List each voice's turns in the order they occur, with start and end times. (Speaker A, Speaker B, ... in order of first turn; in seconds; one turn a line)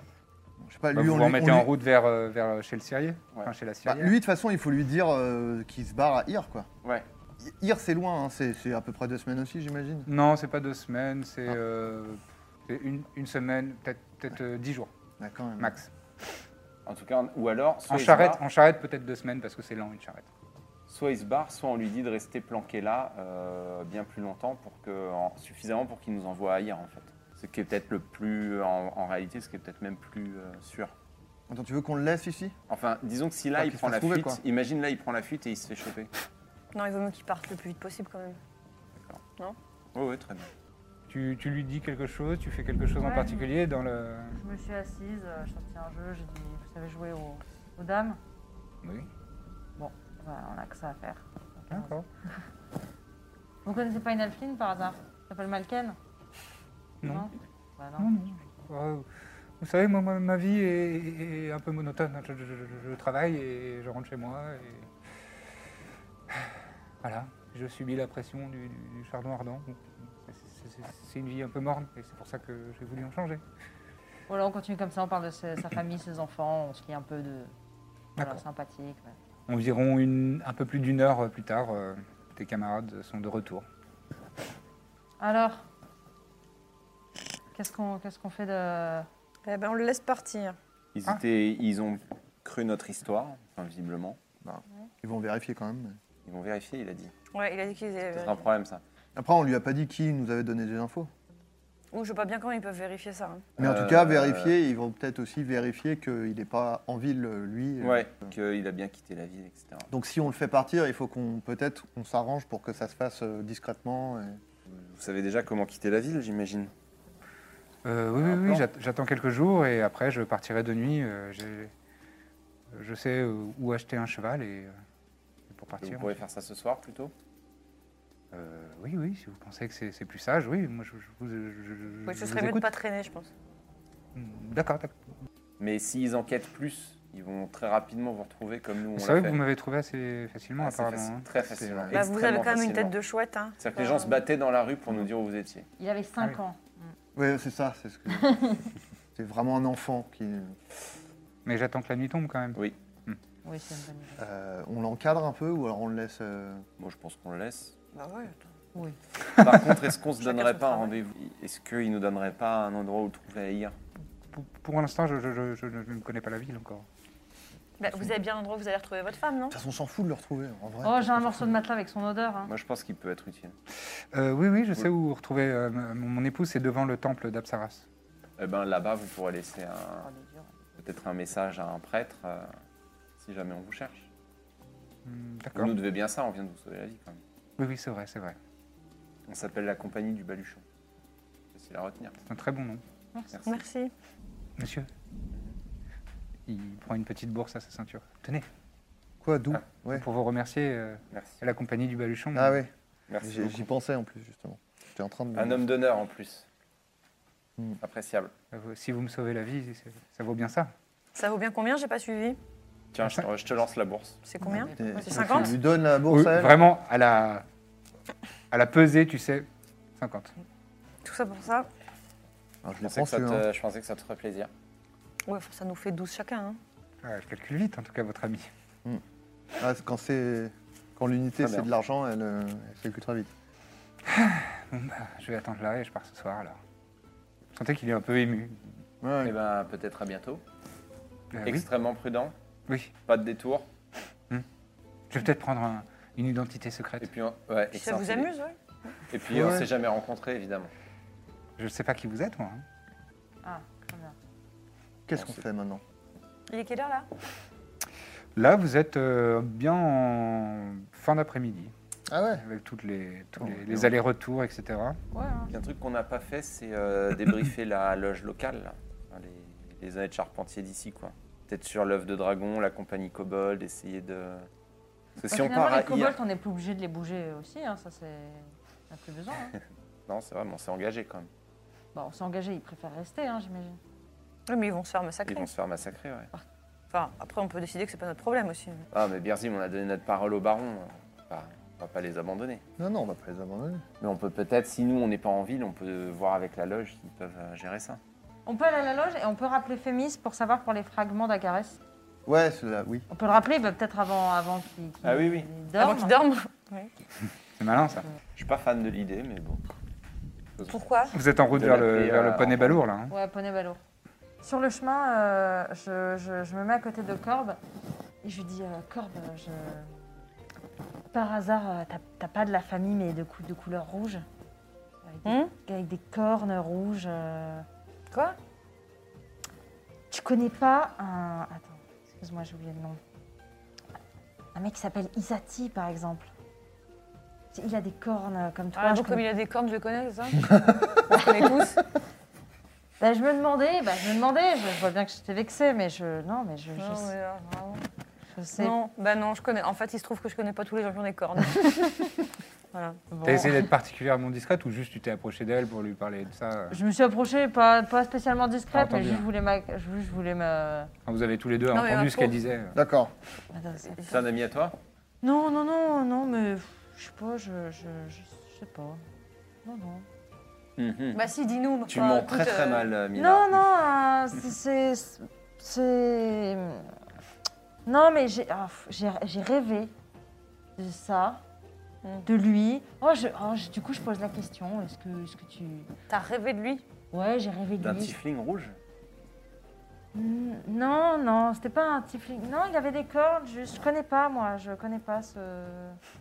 Speaker A: 0.6-1.7
Speaker B: 0.9-4.1
Speaker A: 3.8-6.7
Speaker A: 7.4-10.1
Speaker B: 10.1-14.9
Speaker A: 15.2-15.7
Speaker B: 15.6-15.9
Speaker C: 16.9-18.4
Speaker B: 17.9-20.2
Speaker C: 20.9-30.9
Speaker A: 31.5-32.5
Speaker C: 32.7-36.1
Speaker A: 33.6-34.4
Speaker D: 36.7-38.4
Speaker C: 39.9-40.5
Speaker B: 41.1-44.4
Speaker E: 43.0-43.5
Speaker E: 44.4-48.2
Speaker B: 48.8-49.1
Speaker E: 49.8-51.9
Speaker B: 51.7-52.0
Speaker E: 53.6-56.0
Speaker B: 57.0-57.3
Speaker E: 57.0-58.1
Speaker B: 58.0-59.1
Speaker B: 59.6-64.9
Speaker B: 67.0-73.4
Speaker E: 74.3-77.5
Speaker E: 78.2-79.2
Speaker B: 79.5-83.7
Speaker E: 85.2-85.7
Speaker E: 87.5-89.1
Speaker D: 89.4-90.6
Speaker C: 90.9-94.2
Speaker A: 94.4-96.0
Speaker C: 96.2-97.1
Speaker D: 97.3-98.4
Speaker C: 98.1-98.8
Speaker A: 99.1-101.1
Speaker D: 101.9-103.5
Speaker A: 103.6-108.3
Speaker C: 103.6-104.5
Speaker C: 107.8-109.9
Speaker A: 109.9-114.4
Speaker C: 114.7-116.7
Speaker B: 117.8-121.7
Speaker C: 118.2-118.6
Speaker B: 122.7-124.7
Speaker B: 125.5-126.2
Speaker C: 125.8-127.1
Speaker B: 128.3-132.7
Speaker D: 132.1-133.3
Speaker B: 134.1-134.9
Speaker C: 135.6-139.4
Speaker B: 138.9-141.9
Speaker C: 140.6-142.9
Speaker D: 141.9-144.2
Speaker C: 143.6-145.7
Speaker E: 145.8-146.9
Speaker A: 147.1-148.3
Speaker E: 148.1-148.7
Speaker A: 149.1-150.6
Speaker B: 151.4-153.2
Speaker E: 153.4-154.2
Speaker A: 154.2-156.6
Speaker C: 156.8-157.7
Speaker D: 157.9-158.4
Speaker C: 159.4-163.8
Speaker D: 160.2-160.9
Speaker B: 164.3-166.8
Speaker D: 167.8-169.6
Speaker A: 169.5-171.5
Speaker E: 170.8-172.5
Speaker C: 172.4-173.6
Speaker B: 174.1-177.8
Speaker C: 178.4-180.1
Speaker E: 180.0-180.5
Speaker C: 180.8-182.6
Speaker C: 183.2-184.1
Speaker B: 185.0-185.7
Speaker C: 185.5-187.2
Speaker B: 187.6-188.3
Speaker C: 189.3-190.6
Speaker C: 191.5-192.2
Speaker B: 192.2-192.8
Speaker C: 193.3-193.6
Speaker D: 193.5-193.9
Speaker B: 194.6-194.9
Speaker B: 196.5-198.5
Speaker A: 199.2-200.0
Speaker B: 199.9-202.6
Speaker C: 201.1-201.4
Speaker A: 202.3-202.7
Speaker C: 203.1-203.7
Speaker A: 203.2-205.6
Speaker C: 205.3-206.4
Speaker C: 207.8-208.3
Speaker B: 208.5-210.7
Speaker D: 211.1-212.4
Speaker C: 212.9-214.2
Speaker D: 214.2-215.5
Speaker A: 214.4-216.6
Speaker E: 214.5-215.5
Speaker B: 216.1-217.4
Speaker B: 218.5-220.3
Speaker D: 221.0-221.7
Speaker A: 222.6-223.4
Speaker C: 222.8-224.5
Speaker D: 225.3-226.6
Speaker B: 227.0-228.5
Speaker A: 229.6-233.3
Speaker C: 231.4-231.7
Speaker B: 234.1-236.6
Speaker B: 237.5-238.7
Speaker A: 239.0-239.3
Speaker C: 239.2-240.4
Speaker B: 241.3-241.7
Speaker C: 241.4-242.3
Speaker C: 243.1-243.7
Speaker B: 245.1-247.1
Speaker C: 247.0-248.3
Speaker D: 247.7-248.6
Speaker C: 249.1-250.7
Speaker A: 249.3-249.7
Speaker B: 251.6-252.6
Speaker E: 253.4-254.2
Speaker A: 255.1-255.8
Speaker D: 256.5-257.1
Speaker B: 258.4-261.7
Speaker A: 262.1-262.4
Speaker B: 262.4-265.0
Speaker E: 265.1-265.5
Speaker C: 265.5-274.5
Speaker C: 275.2-276.2
Speaker E: 275.3-279.6
Speaker C: 280.1-281.3
Speaker E: 281.9-283.8
Speaker D: 284.5-285.5
Speaker C: 285.3-286.3
Speaker D: 286.3-288.8
Speaker C: 288.9-292.6
Speaker A: 292.8-293.8
Speaker C: 294.0-298.0
Speaker E: 298.4-301.8
Speaker A: 302.2-303.1
Speaker E: 303.1-306.1
Speaker C: 305.0-305.5
Speaker D: 305.8-306.9
Speaker B: 307.6-308.1
Speaker C: 308.3-309.6
Speaker C: 310.6-310.8
Speaker D: 310.7-311.1
Speaker B: 311.1-313.1
Speaker C: 311.5-312.8
Speaker E: 313.1-313.8
Speaker E: 314.4-317.6
Speaker E: 318.2-319.9
Speaker E: 321.1-324.2
Speaker E: 325.0-327.6
Speaker D: 325.2-325.5
Speaker D: 328.1-328.4
Speaker E: 330.1-333.0
Speaker E: 334.5-336.3
Speaker E: 337.5-339.2
Speaker D: 338.7-341.8
Speaker E: 343.0-347.1
Speaker D: 346.8-347.8
Speaker E: 348.3-348.7
Speaker D: 348.6-352.1
Speaker D: 352.7-353.0
Speaker E: 353.1-353.7
Speaker B: 353.2-356.8
Speaker E: 356.7-360.9
Speaker B: 358.7-359.2
Speaker B: 361.1-362.8
Speaker D: 361.7-362.4
Speaker A: 362.7-363.1
Speaker E: 363.5-364.2
Speaker C: 364.1-364.8
Speaker E: 365.2-369.0
Speaker E: 369.6-370.1
Speaker C: 370.8-371.2
Speaker D: 371.1-372.9
Speaker C: 371.9-373.6
Speaker E: 373.1-376.9
Speaker E: 377.9-379.9
Speaker E: 380.8-381.4
Speaker E: 382.2-385.9
Speaker D: 386.1-386.8
Speaker E: 387.1-388.2
Speaker C: 387.8-388.8
Speaker E: 390.1-396.0